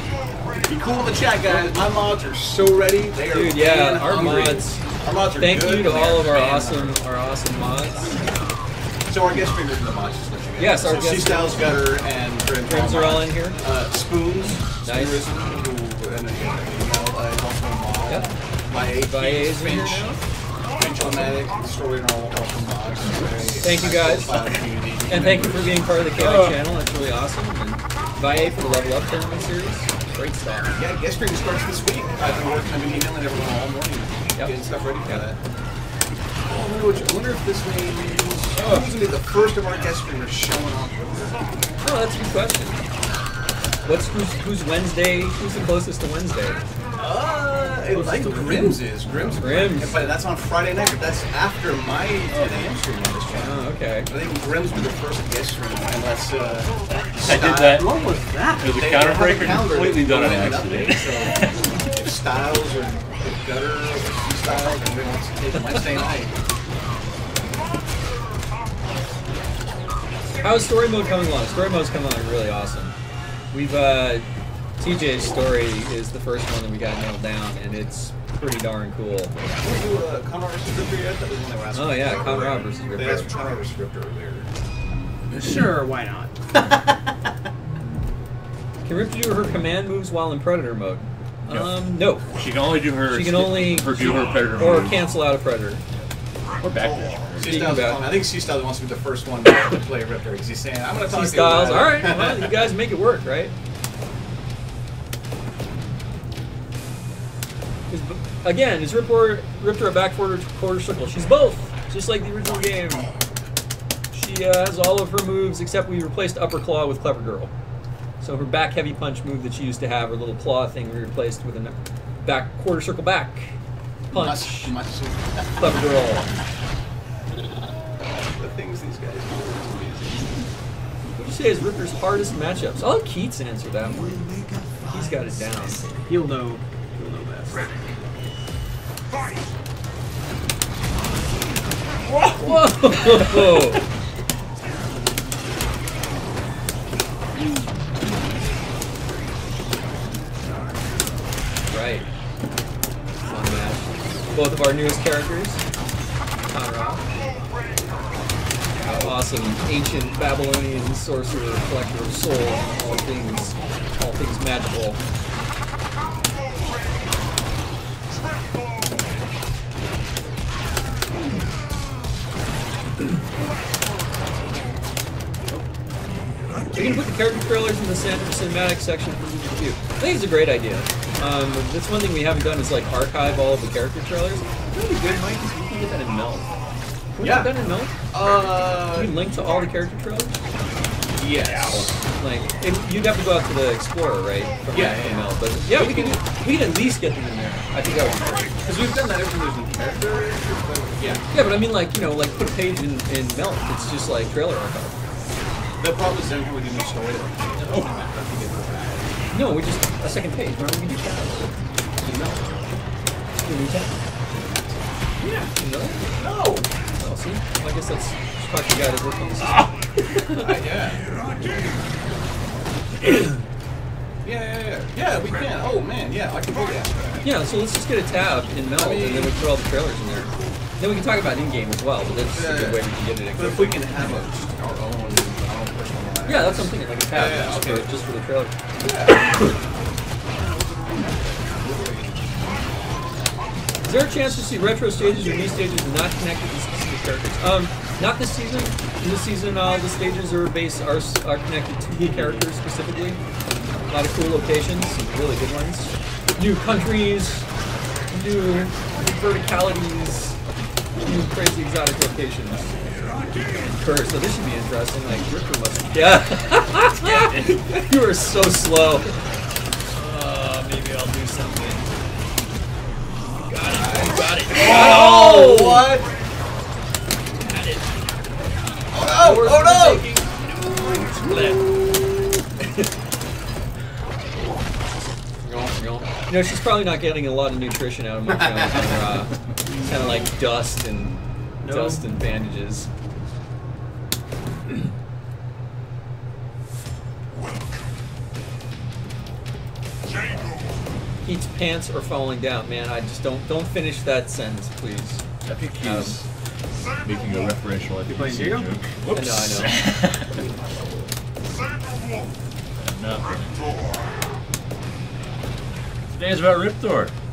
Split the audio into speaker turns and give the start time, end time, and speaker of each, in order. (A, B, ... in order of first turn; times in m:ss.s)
0:00.6-0:06.9 A
0:03.2-0:08.2 B
0:09.0-0:20.1 A
0:10.6-0:11.7 B
0:12.6-0:13.6 B
0:14.8-0:15.2 B
0:18.9-0:20.2 B
0:20.8-0:26.0 A
0:21.0-0:21.3 B
0:23.6-0:24.5 B
0:25.1-0:30.8 B
0:26.1-0:26.6 C
0:30.7-0:35.4 A
0:34.4-0:35.3 B
0:36.4-0:41.4 A
0:38.6-0:38.9 B
0:41.8-0:42.8 B
0:43.8-0:46.6 B
0:47.0-0:57.9 A
0:47.9-0:48.9 D
0:49.4-0:50.1 B
0:52.3-0:52.7 C
0:53.4-0:54.1 B
0:57.2-0:57.9 C
0:57.7-0:58.8 D
0:58.6-1:01.6 C
0:58.7-1:06.3 A
1:10.4-1:12.9 B
1:13.5-1:14.2 B
1:14.8-1:19.3 B
1:19.6-1:24.5 A
1:21.7-1:23.3 B
1:25.3-1:26.3 D
1:28.8-1:32.4 B
1:31.5-1:31.8 C
1:32.3-1:35.0 C
1:33.0-1:35.8 B
1:36.6-1:37.7 C
1:37.4-1:42.6 A
1:37.4-1:38.1 B
1:41.1-1:43.5 B
1:47.9-1:53.1 B
1:54.1-1:57.5 B
1:58.2-2:03.5 B
2:04.1-2:04.8 B
2:04.1-2:05.9 A
2:05.6-2:06.3 B
2:08.2-2:10.4 A
2:11.2-2:14.2 B
2:14.8-2:15.8 B
2:16.0-2:18.0 D
2:22.3-2:23.8 B
2:31.7-2:32.1 B
2:33.2-2:35.6 B
2:36.5-2:37.0 B
2:38.8-2:45.0 B
2:56.7-3:06.5 B
3:07.1-3:08.0 B
3:07.2-3:07.5 A
3:08.1-3:09.1 A
3:08.8-3:10.4 B
3:11.1-3:11.9 A
3:11.5-3:18.8 B
3:14.7-3:16.2 A
3:18.6-3:21.3 A
3:21.3-3:25.0 B
3:25.8-3:29.1 A
3:29.3-3:32.4 B
3:33.4-3:33.9 B
3:35.2-3:36.2 B
3:36.2-3:36.7 A
3:37.0-3:40.6 B
3:40.4-3:41.1 A
3:41.1-3:41.7 B
3:44.2-3:47.2 A
3:47.2-3:53.9 B
3:48.8-3:49.4 A
3:52.3-3:52.8 A
3:53.4-3:57.9 A
3:56.2-3:58.6 B
3:58.8-3:59.5 A
3:59.1-3:59.5 B
4:00.3-4:02.6 A
4:03.8-4:13.2 B
4:12.0-4:12.4 D
4:13.9-4:17.5 B
4:18.1-4:20.4 B
4:21.0-4:29.1 B
4:27.0-4:27.5 C
4:29.9-4:31.8 B
4:33.3-4:35.9 B
4:33.7-4:36.1 A
4:37.4-4:38.0 B
4:38.9-4:40.1 A
4:39.0-4:42.9 B
4:45.4-4:52.9 B
4:51.6-4:52.0 D
5:01.2-5:05.2 B
5:05.4-5:06.3 C
5:05.8-5:06.2 B
5:07.0-5:10.4 C
5:08.1-5:08.7 D
5:09.1-5:09.8 B
5:12.8-5:13.8 C
5:16.1-5:17.1 C